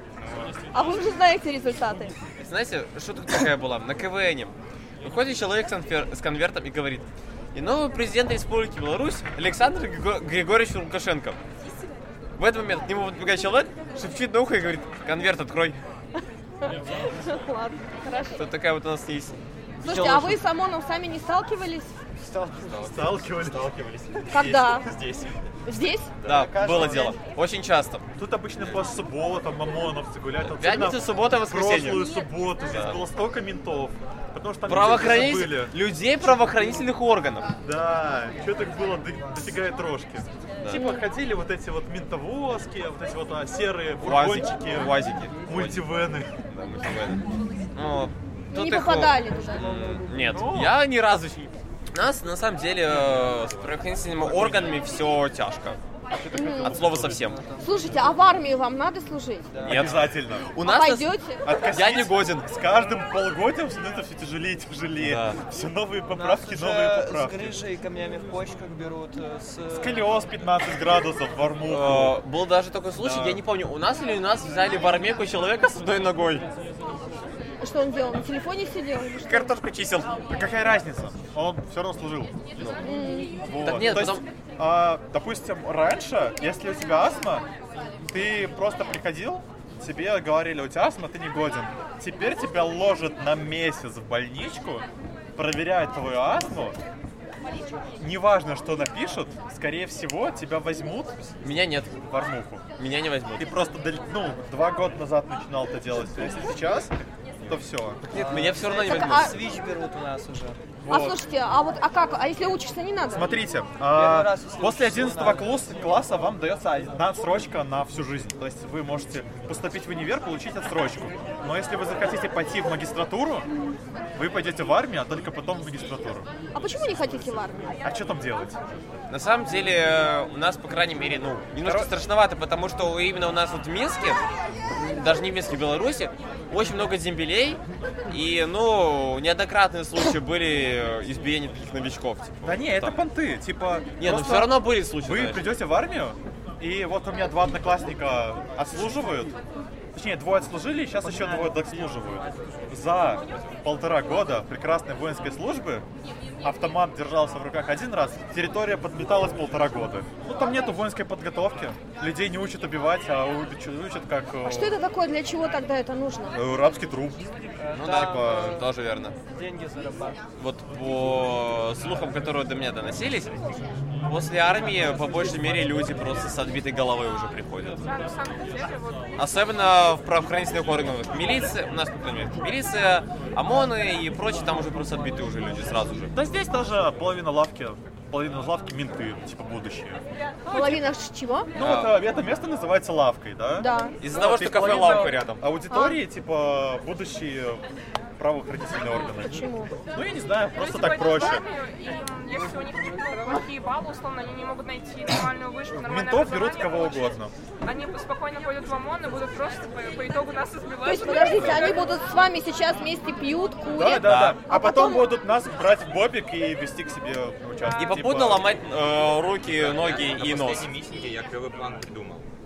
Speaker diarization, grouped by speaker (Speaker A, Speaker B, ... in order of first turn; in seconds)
Speaker A: 0.2-0.6, 219.4-222.2
Speaker B: 0.7-2.1, 16.7-18.4, 19.8-21.9, 24.3-24.9, 25.7-26.1, 40.7-41.1, 48.5-49.9, 56.3-56.8, 57.6-59.6, 60.6-61.5, 77.6-79.6, 82.8-83.4, 108.7-109.4, 110.9-113.4, 126.5-127.8, 164.4-166.4, 190.5-191.5, 193.6-194.0, 195.7-196.0, 199.2-199.7, 210.8-215.2
Speaker C: 2.4-11.4, 12.4-15.8, 18.4-20.4, 22.6-23.1, 26.2-28.1, 30.4-33.0, 34.7-37.5, 40.6-40.9, 44.0-45.9, 46.5-47.2, 47.7-55.8, 56.4-57.4, 59.6-61.1, 61.7-62.5, 65.0-65.4, 71.7-76.5, 79.2-80.2, 83.5-84.2, 101.4-102.0, 102.8-103.5, 108.1-109.4, 129.1-134.2, 134.8-143.0, 144.0-145.6, 167.7-169.2, 170.4-173.4, 174.1-177.8, 179.2-186.1, 191.6-191.9, 194.0-195.4, 214.0-214.4, 217.8-220.7
Speaker D: 22.2-25.3, 26.2-27.2, 28.2-35.7, 37.6-46.4, 50.3-50.8, 54.2-54.5, 56.6-57.2, 59.7-60.5, 61.5-67.6, 69.7-72.2, 73.0-73.4, 80.3-82.4, 83.4-87.5, 88.1-96.8, 98.0-101.3, 102.0-102.6, 103.4-108.0, 110.9-111.2, 113.1-123.5, 124.2-126.3, 127.8-128.6, 131.6-131.9, 142.4-149.4, 149.9-155.8, 156.4-164.8, 166.3-167.3, 168.0-168.6, 186.1-190.6, 191.6-197.6, 198.2-201.4, 205.7-207.3, 213.7-218.5
Speaker E: 57.2-57.6, 59.6-59.9, 66.1-70.0, 108.1-110.6, 113.9-115.5, 167.6-168.6, 169.3-170.2
Speaker F: 177.8-179.2, 200.6-211.8, 217.7-218.1